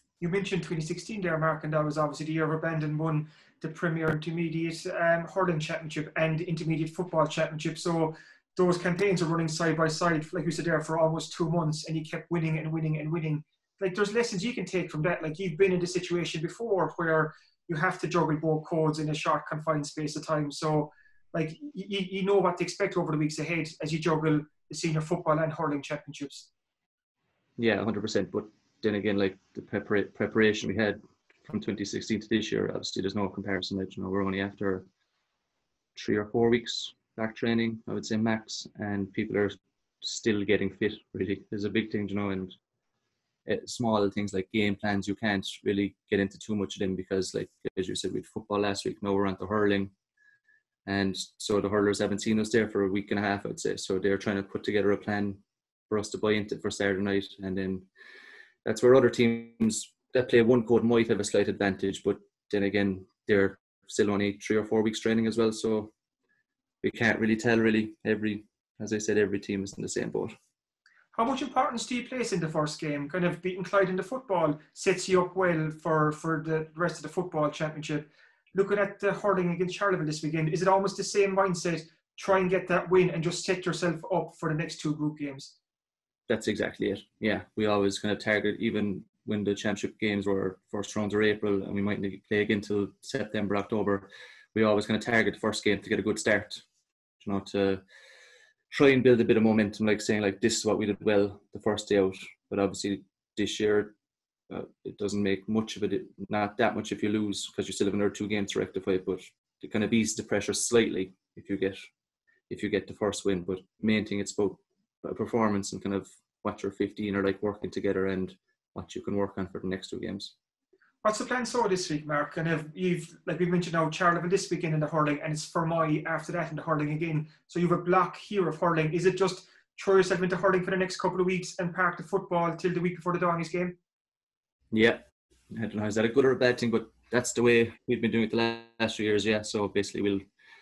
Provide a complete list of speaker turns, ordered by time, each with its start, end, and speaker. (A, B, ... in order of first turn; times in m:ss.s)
0:00.2-0:26.5 A
0:27.6-0:34.9 B
0:36.0-0:42.5 B
0:43.5-0:49.9 B
0:50.9-0:57.9 B
0:58.6-1:05.9 B
1:06.8-1:10.4 B
1:11.1-1:25.5 A
1:26.3-1:36.6 B
1:37.2-1:37.8 B
1:38.7-1:44.0 B
1:44.5-1:51.9 B
1:52.5-2:00.3 B
2:01.0-2:13.8 A
2:14.7-2:20.2 B